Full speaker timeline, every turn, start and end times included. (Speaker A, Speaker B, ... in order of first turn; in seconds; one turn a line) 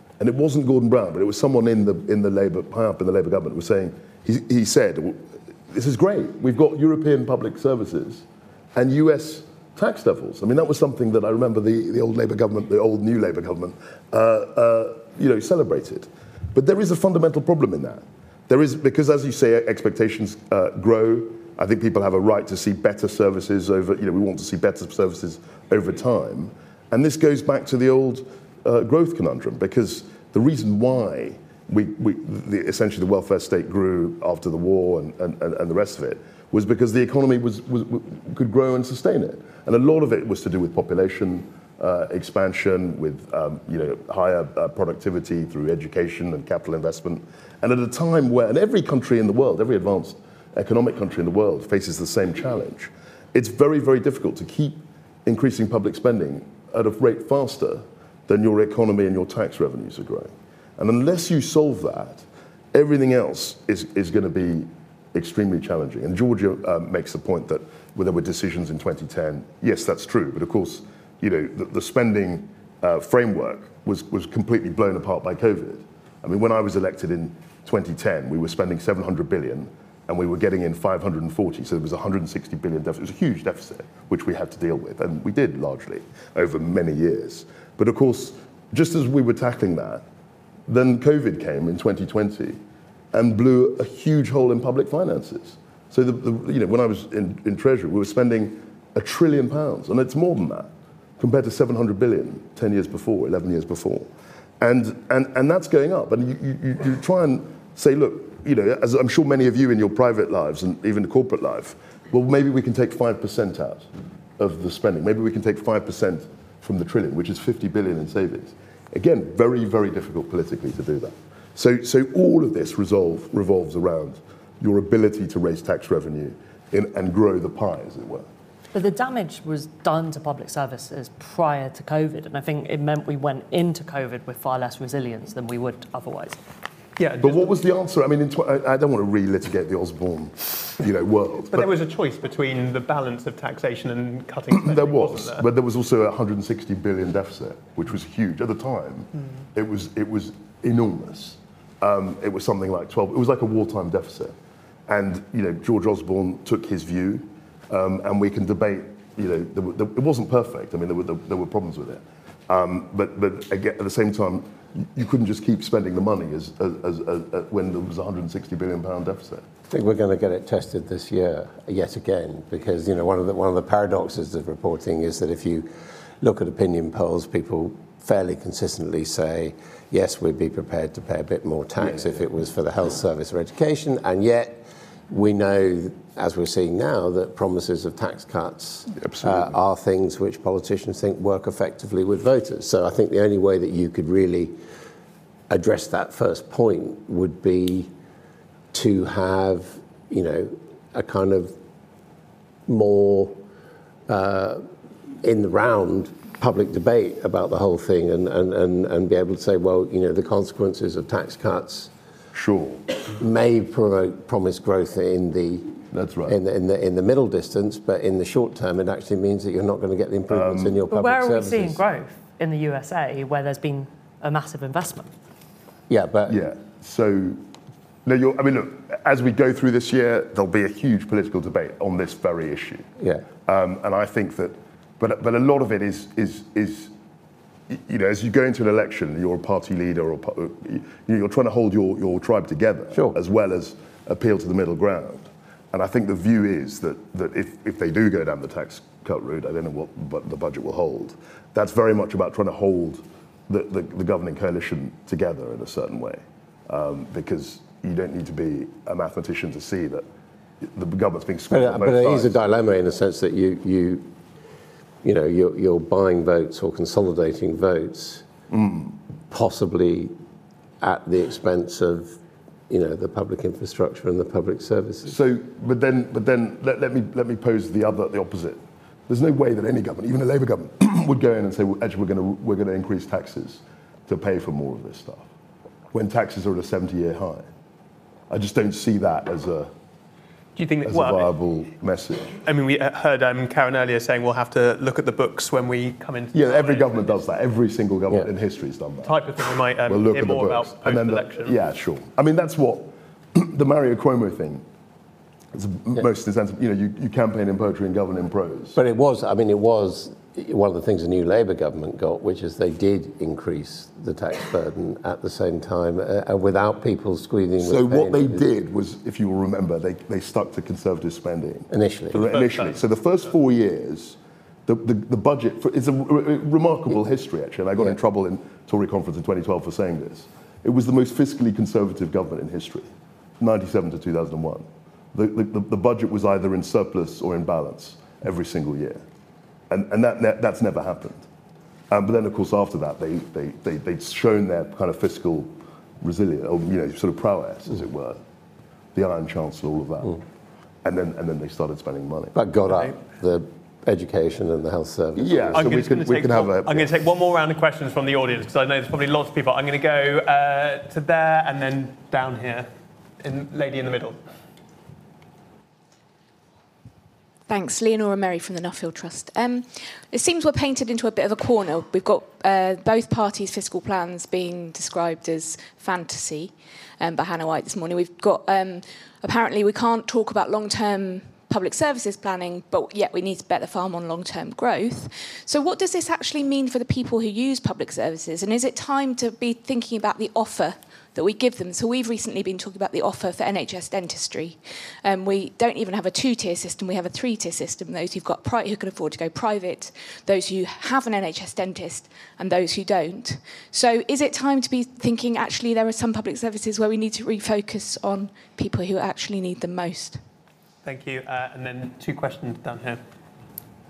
Speaker A: 0.2-90.0
Speaker A: 90.7-92.6
Speaker A: 93.1-104.1
Speaker A: 104.6-128.3
Speaker B: 128.7-136.4
Speaker C: 137.0-137.5
Speaker A: 137.2-141.7
Speaker C: 141.5-145.5
Speaker A: 144.5-154.3
Speaker A: 154.9-169.5
Speaker D: 169.7-175.7
Speaker D: 176.2-194.6
Speaker A: 181.8-182.1
Speaker A: 188.9-189.6
Speaker D: 195.5-197.9
Speaker D: 198.7-201.6
Speaker D: 202.7-203.4
Speaker D: 204.1-204.7
Speaker D: 205.2-211.9
Speaker A: 212.3-212.9
Speaker D: 213.1-221.8
Speaker A: 215.9-216.4
Speaker A: 220.3-220.8
Speaker B: 220.9-225.1
Speaker D: 225.9-226.4
Speaker A: 226.3-227.4
Speaker A: 228.1-232.9
Speaker D: 233.0-233.3
Speaker A: 233.4-236.9
Speaker A: 237.7-260.1
Speaker D: 242.9-243.2
Speaker A: 260.6-262.4
Speaker D: 261.5-264.1
Speaker D: 265.0-268.3
Speaker A: 268.5-269.0
Speaker D: 269.3-270.2
Speaker D: 270.8-275.2
Speaker A: 275.1-285.3
Speaker A: 285.9-287.5
Speaker A: 288.3-289.7
Speaker C: 290.6-291.3
Speaker A: 290.9-292.4
Speaker C: 292.4-297.2
Speaker A: 296.3-299.2
Speaker C: 299.1-301.6
Speaker A: 299.9-304.6
Speaker A: 305.5-308.8
Speaker D: 308.8-318.4
Speaker A: 317.6-332.9
Speaker D: 321.7-322.3
Speaker A: 333.4-339.0
Speaker A: 339.7-341.2
Speaker A: 341.9-348.2
Speaker A: 348.9-350.2
Speaker A: 350.8-352.4
Speaker D: 352.4-355.7
Speaker A: 355.2-356.9
Speaker C: 355.5-362.7
Speaker C: 363.2-364.2
Speaker E: 367.5-410.2
Speaker C: 410.9-413.0